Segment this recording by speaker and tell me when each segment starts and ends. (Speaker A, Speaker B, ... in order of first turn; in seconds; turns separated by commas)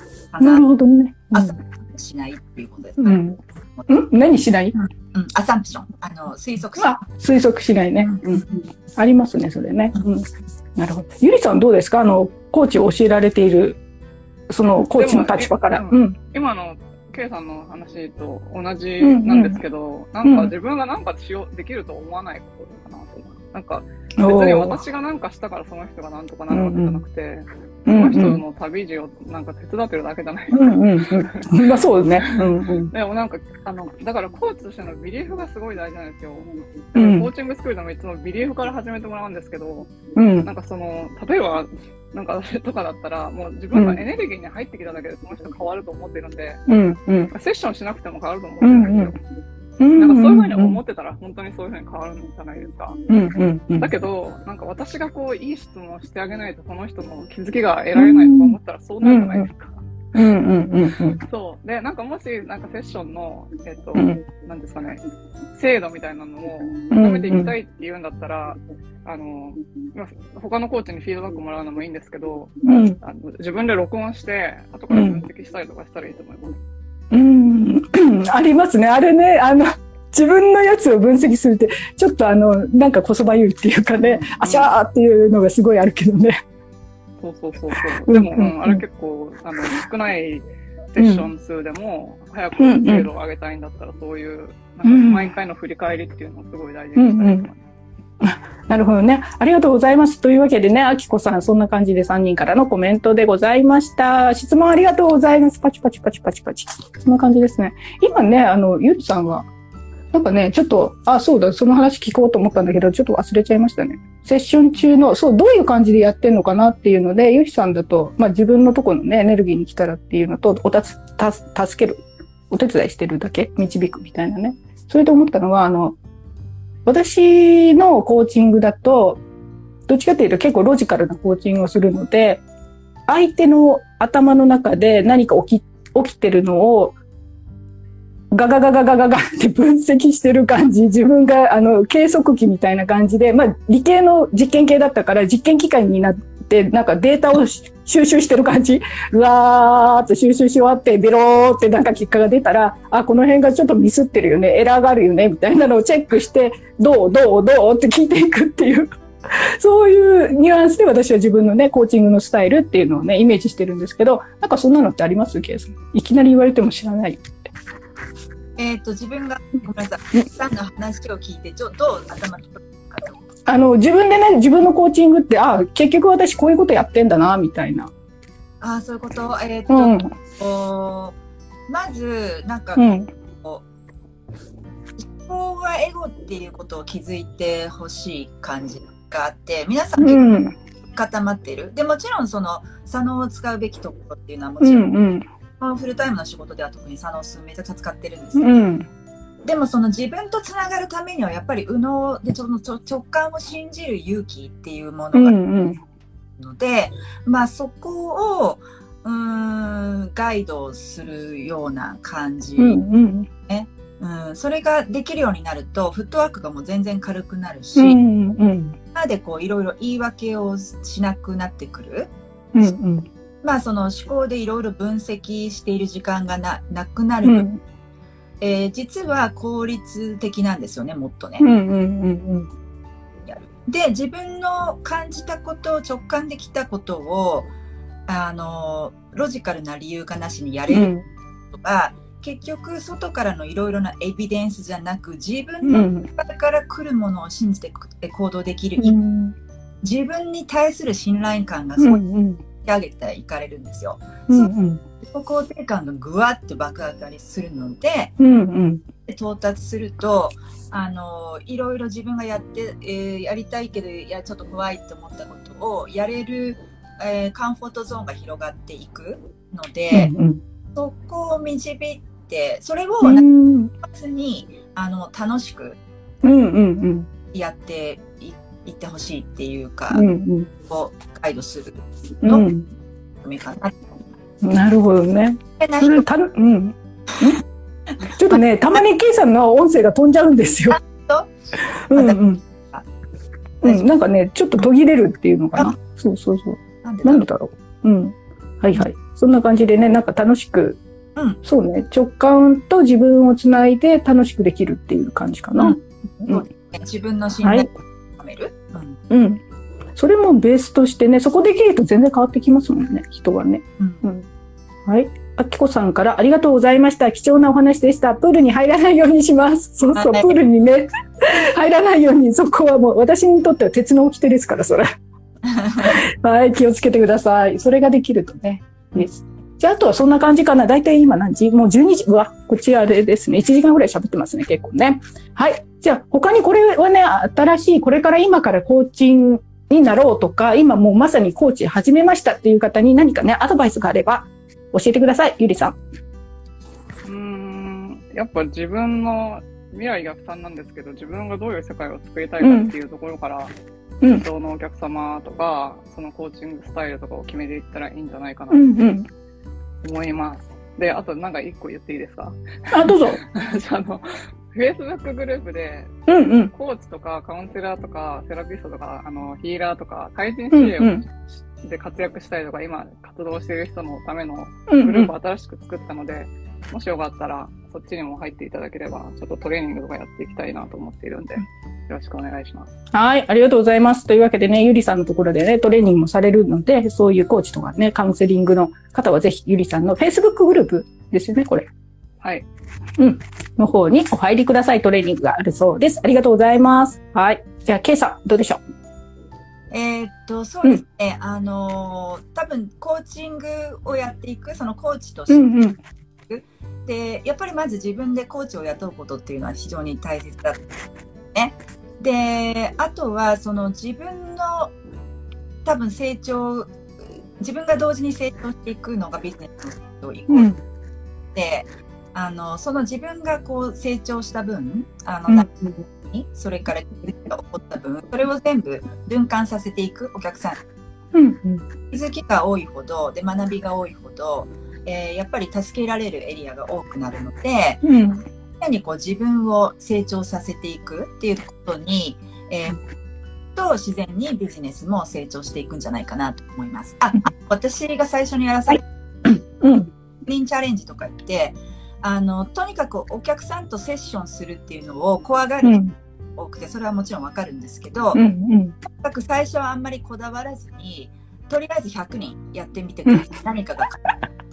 Speaker A: 0.3-0.7, Speaker B: 0.4-1.6, Speaker A: 1.3-3.2, Speaker B: 3.0-4.8, Speaker A: 5.1-7.0, Speaker B: 6.8-13.8, Speaker B: 14.5-16.2, Speaker C: 14.8-46.6, Speaker B: 19.0-19.6, Speaker B: 20.2-20.5, Speaker B: 24.2-24.8, Speaker B: 26.5-27.0, Speaker B: 27.9-28.4, Speaker B: 30.5-32.9, Speaker B: 37.0-37.3, Speaker B: 40.2-40.5, Speaker B: 43.7-44.0, Speaker B: 46.7-47.3, Speaker C: 47.3-49.2, Speaker B: 48.6-49.1, Speaker B: 49.8-50.8, Speaker C: 50.0-53.0, Speaker B: 53.1-53.9, Speaker C: 53.8-59.8, Speaker B: 57.9-59.5, Speaker B: 60.1-61.2, Speaker C: 61.2-65.0, Speaker B: 64.0-64.2, Speaker C: 65.5-76.6, Speaker B: 66.9-67.5, Speaker B: 72.6-73.0, Speaker B: 74.9-75.3, Speaker B: 77.1-86.4, Speaker C: 84.0-84.7, Speaker C: 87.2-97.6, Speaker B: 88.1-88.8, Speaker B: 91.0-91.3, Speaker B: 92.6-93.1, Speaker B: 94.8-95.3, Speaker B: 97.0-97.5, Speaker B: 98.2-109.5, Speaker B: 110.1-126.0, Speaker B: 126.9-129.2, Speaker B: 129.9-132.4, Speaker B: 133.1-136.9, Speaker B: 138.3-167.3, Speaker A: 168.6-173.2, Speaker B: 173.5-177.9, Speaker A: 178.6-181.2, Speaker B: 179.7-180.1, Speaker A: 181.7-183.6, Speaker B: 182.8-183.1, Speaker A: 185.0-190.3, Speaker B: 190.0-190.6, Speaker A: 190.9-194.9, Speaker B: 194.6-195.3, Speaker A: 195.6-198.5, Speaker B: 198.4-198.9, Speaker A: 199.4-205.4, Speaker B: 205.1-205.8, Speaker A: 206.4-212.8, Speaker B: 212.6-213.3, Speaker A: 213.5-218.0, Speaker B: 217.8-218.8, Speaker A: 218.9-222.1, Speaker B: 222.5-223.1, Speaker A: 223.4-227.5, Speaker B: 227.2-227.6, Speaker A: 228.4-231.5, Speaker B: 231.4-232.5, Speaker A: 233.3-237.5, Speaker A: 238.1-240.9, Speaker B: 240.7-241.1, Speaker A: 241.5-249.0, Speaker B: 245.7-246.1, Speaker B: 248.8-249.3, Speaker A: 249.8-252.0, Speaker B: 251.8-252.4, Speaker A: 252.6-258.1, Speaker B: 254.3-254.8, Speaker B: 258.2-258.9, Speaker A: 259.1-270.1, Speaker B: 269.9-270.4, Speaker A: 270.8-273.3, Speaker B: 273.0-273.7, Speaker A: 273.8-275.8, Speaker B: 276.2-277.1, Speaker A: 277.3-280.1, Speaker B: 279.9-280.5, Speaker A: 280.7-282.5, Speaker B: 282.2-282.7, Speaker A: 283.2-284.0, Speaker B: 284.4-287.4, Speaker A: 285.6-286.1, Speaker B: 288.1-290.8, Speaker A: 290.7-291.3, Speaker B: 291.9-292.4, Speaker A: 291.9-292.9, Speaker B: 293.6-300.8, Speaker A: 296.8-297.3, Speaker B: 301.4-306.4, Speaker A: 305.6-309.0, Speaker B: 309.1-309.4, Speaker B: 310.0-314.3, Speaker A: 313.8-314.0, Speaker B: 314.9-324.9, Speaker A: 319.9-320.3, Speaker A: 325.6-325.9, Speaker B: 325.8-345.8, Speaker C: 347.1-353.5, Speaker B: 352.4-352.7, Speaker C: 354.1-358.7, Speaker B: 358.5-359.1, Speaker C: 359.8-382.7, Speaker B: 362.7-363.2, Speaker B: 366.1-366.5, Speaker B: 370.5-371.1, Speaker B: 374.7-375.1, Speaker B: 382.9-391.7, Speaker C: 392.2-392.5, Speaker B: 393.0-398.6, Speaker A: 399.7-405.4, Speaker B: 405.3-405.8, Speaker A: 406.3-410.6, Speaker A: 411.3-414.7, Speaker A: 415.6-420.5, Speaker B: 420.3-420.6, Speaker A: 421.4-430.6, Speaker B: 425.3-425.8, Speaker B: 431.1-431.7, Speaker A: 431.9-437.8, Speaker B: 437.8-438.2, Speaker A: 438.6-442.8, Speaker A: 443.6-448.9, Speaker B: 449.6-449.9, Speaker A: 450.3-455.8, Speaker B: 455.6-455.9, Speaker A: 456.4-458.2, Speaker B: 458.1-458.8, Speaker A: 458.8-464.0, Speaker B: 463.1-463.3